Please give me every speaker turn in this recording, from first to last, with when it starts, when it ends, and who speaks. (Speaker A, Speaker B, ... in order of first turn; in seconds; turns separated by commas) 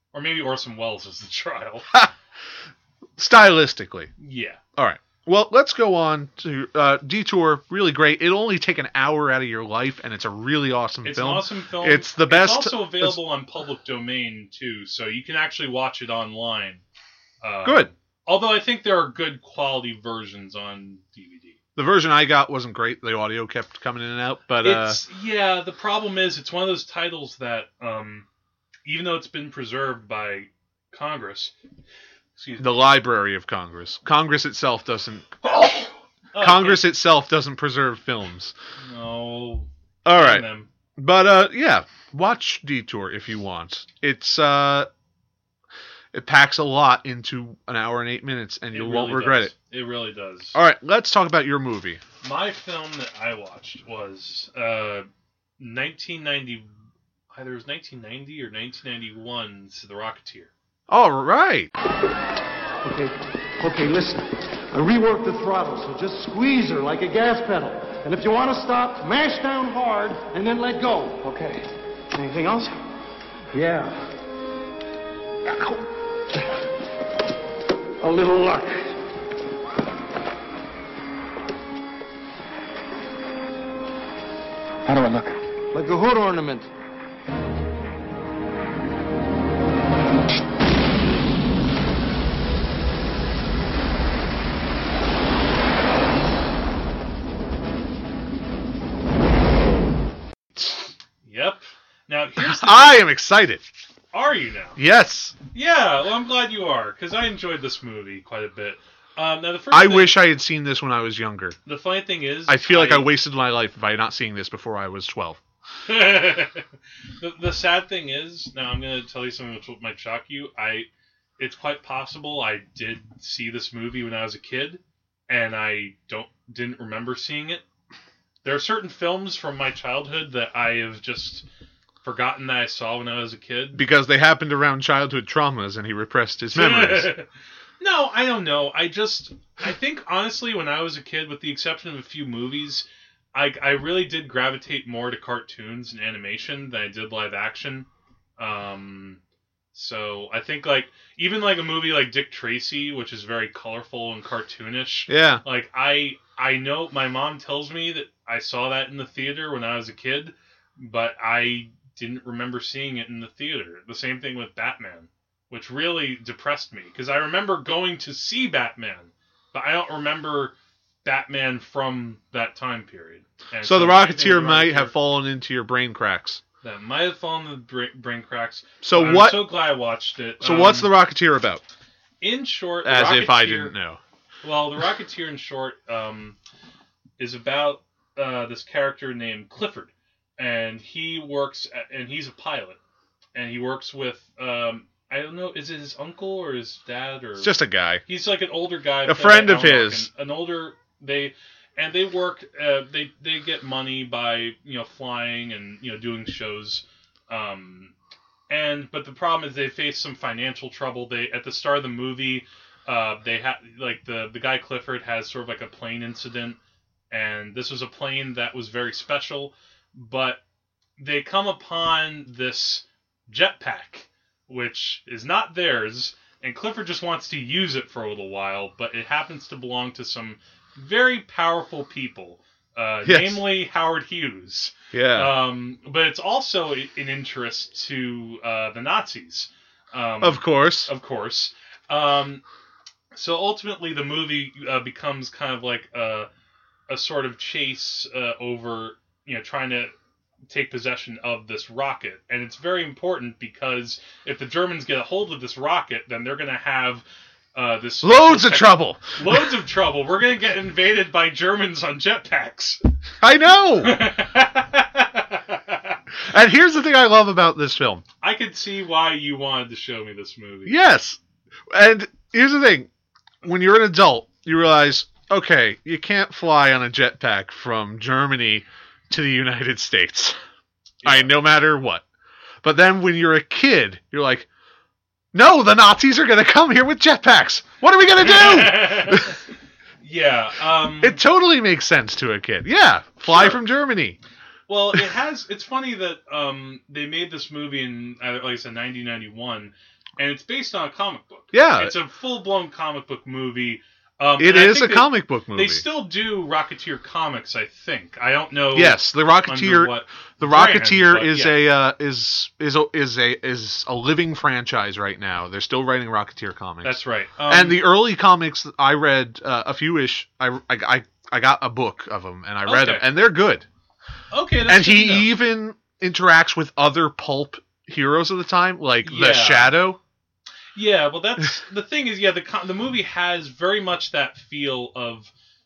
Speaker A: 0.1-1.9, Speaker B: 3.2-4.1, Speaker A: 4.2-4.6, Speaker B: 4.8-13.2, Speaker A: 11.0-16.8, Speaker A: 17.4-21.6, Speaker B: 17.6-17.9, Speaker B: 21.8-25.0, Speaker A: 24.6-28.3, Speaker A: 28.9-31.5, Speaker A: 32.4-32.7, Speaker B: 32.6-35.5, Speaker A: 35.4-36.9, Speaker B: 36.4-38.5, Speaker A: 38.8-40.7, Speaker B: 40.0-44.9, Speaker B: 46.1-49.5, Speaker A: 48.7-50.6, Speaker B: 50.5-52.0, Speaker A: 52.2-55.1, Speaker A: 55.6-56.7, Speaker A: 57.3-60.5, Speaker B: 60.9-61.7, Speaker C: 62.8-72.8, Speaker C: 73.5-74.1, Speaker C: 75.5-75.8, Speaker C: 78.0-79.0, Speaker C: 84.9-86.7, Speaker A: 101.2-103.0, Speaker B: 102.4-103.6, Speaker A: 104.1-104.8, Speaker B: 104.8-105.4, Speaker A: 105.5-110.2, Speaker B: 109.7-111.6, Speaker A: 111.7-113.1, Speaker B: 112.5-115.4, Speaker A: 115.9-116.7, Speaker A: 117.2-127.6, Speaker A: 128.4-131.4, Speaker A: 132.0-133.8, Speaker B: 133.7-137.1, Speaker A: 136.5-137.3, Speaker A: 137.8-147.9, Speaker A: 148.4-149.2, Speaker A: 149.7-174.9, Speaker B: 155.1-155.4, Speaker B: 173.6-176.4, Speaker A: 176.6-180.9, Speaker B: 178.8-179.5, Speaker B: 180.4-181.6, Speaker A: 182.2-183.8, Speaker B: 182.8-184.0, Speaker A: 184.4-186.4, Speaker A: 187.2-192.8, Speaker A: 193.3-207.9, Speaker B: 197.4-198.0, Speaker B: 199.1-200.1, Speaker A: 208.5-216.6, Speaker A: 217.1-220.4, Speaker A: 221.0-242.4, Speaker B: 233.1-233.4, Speaker B: 234.9-235.3, Speaker B: 240.2-240.9, Speaker A: 243.1-246.3, Speaker A: 246.9-249.9, Speaker A: 250.5-262.8, Speaker B: 258.0-259.4, Speaker B: 263.2-264.1, Speaker A: 263.8-266.0, Speaker B: 266.2-268.0, Speaker A: 268.2-270.8, Speaker B: 270.7-271.2, Speaker B: 271.7-272.9, Speaker B: 273.4-280.4, Speaker A: 281.0-281.3, Speaker B: 281.0-282.0, Speaker B: 282.6-284.5, Speaker B: 285.3-289.4, Speaker A: 288.2-289.4, Speaker A: 290.0-291.2, Speaker B: 291.0-294.2, Speaker A: 293.3-293.6, Speaker A: 294.7-311.6, Speaker B: 301.5-301.9, Speaker B: 304.4-305.9, Speaker B: 308.7-323.7, Speaker A: 316.8-317.8, Speaker A: 322.7-323.1, Speaker A: 324.3-325.3, Speaker B: 324.7-330.0, Speaker A: 329.0-329.7, Speaker A: 330.8-335.3